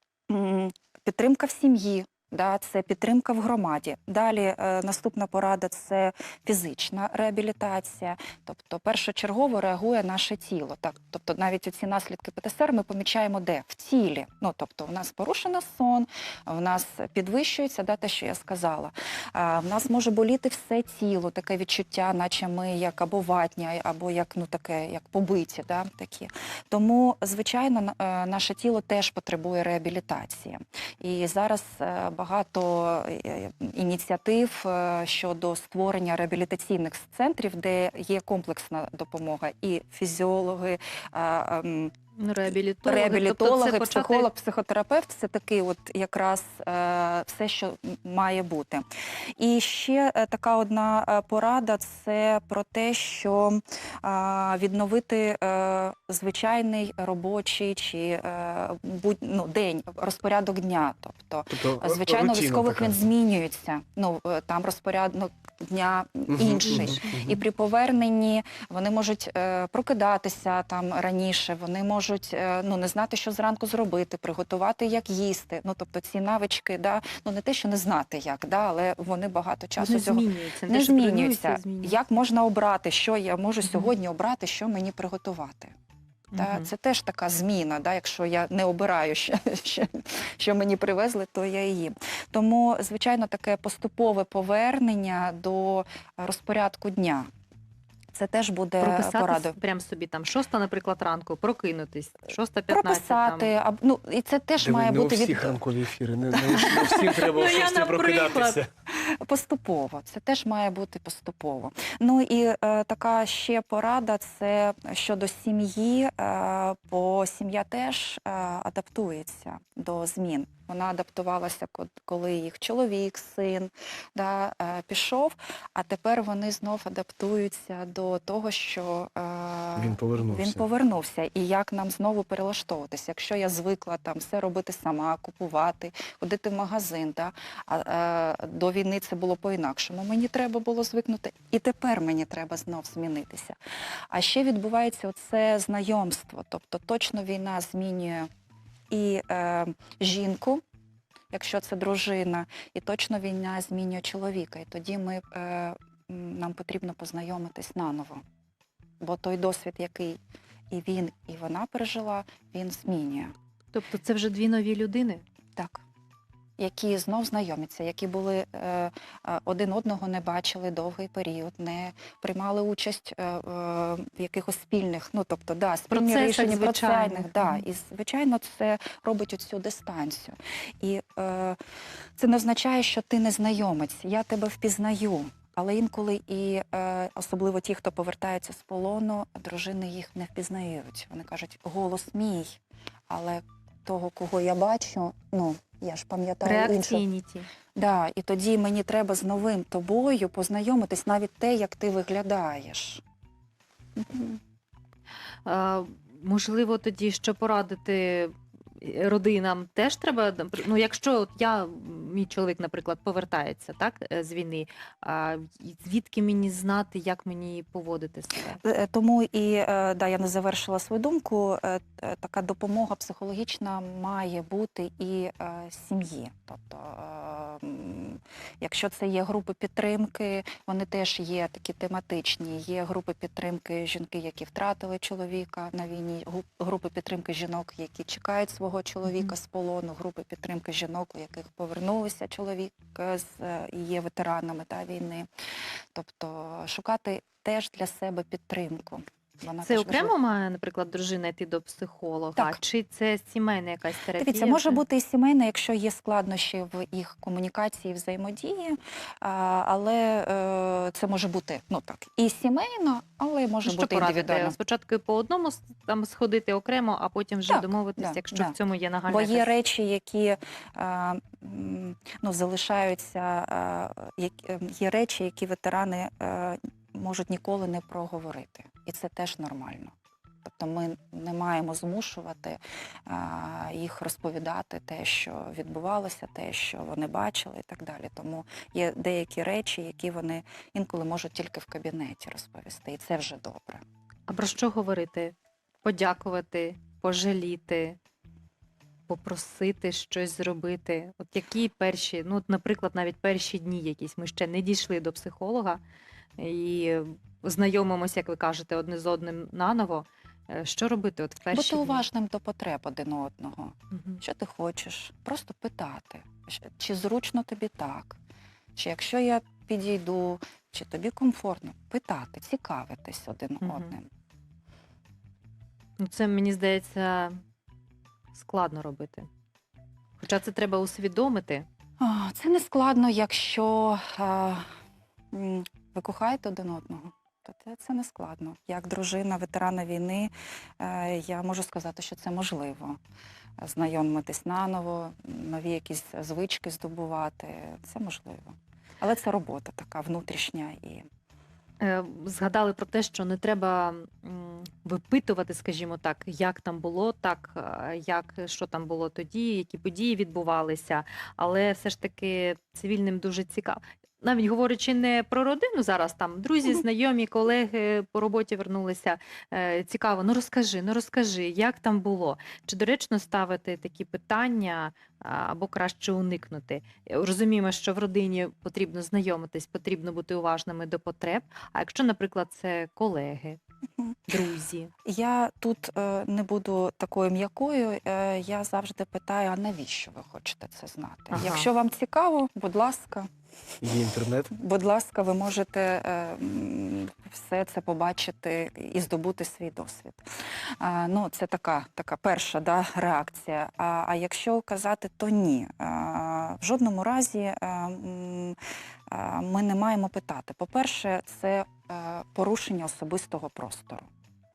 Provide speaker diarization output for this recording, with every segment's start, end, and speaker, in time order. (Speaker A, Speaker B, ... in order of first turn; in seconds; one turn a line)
Speaker A: 0.3-41.9
Speaker B: 42.2-44.3
Speaker A: 42.9-48.9
Speaker A: 49.4-85.7
Speaker C: 61.5-63.1
Speaker C: 66.3-67.4
Speaker B: 79.8-82.0
Speaker B: 83.7-83.9
Speaker B: 86.3-86.7
Speaker A: 86.4-97.3
Speaker A: 98.1-99.6
Speaker B: 98.8-103.5
Speaker A: 102.7-105.6
Speaker C: 104.6-108.7
Speaker B: 106.5-108.6
Speaker A: 108.9-143.6
Speaker C: 129.8-130.7
Speaker A: 144.1-148.3
Speaker A: 148.9-150.6
Speaker A: 151.3-158.2
Speaker A: 159.0-160.2
Speaker A: 160.7-163.3
Speaker B: 163.7-165.2
Speaker A: 165.6-165.8
Speaker A: 166.6-181.6
Speaker B: 175.9-177.6
Speaker A: 182.2-197.0
Speaker B: 196.4-197.5
Speaker A: 197.8-203.0
Speaker A: 204.0-204.4
Speaker B: 205.4-218.6
Speaker A: 218.6-245.3
Speaker A: 245.9-250.2
Speaker B: 249.6-254.8
Speaker A: 254.2-264.6
Speaker B: 263.6-269.5
Speaker A: 267.5-268.6
Speaker A: 269.1-293.8
Speaker B: 294.3-298.0
Speaker B: 299.1-305.8
Speaker B: 306.4-312.0
Speaker A: 311.5-318.2
Speaker B: 313.9-314.2
Speaker A: 318.8-324.1
Speaker B: 323.6-323.9
Speaker B: 326.0-327.4
Speaker B: 328.3-329.3
Speaker B: 330.2-331.7
Speaker A: 332.0-334.7
Speaker A: 335.3-343.0
Speaker A: 343.6-351.1
Speaker B: 351.8-383.6
Speaker B: 384.3-384.9
Speaker A: 385.1-393.3
Speaker B: 391.3-391.7
Speaker C: 393.8-394.5
Speaker A: 394.5-400.2
Speaker A: 400.8-408.6
Speaker A: 409.1-414.1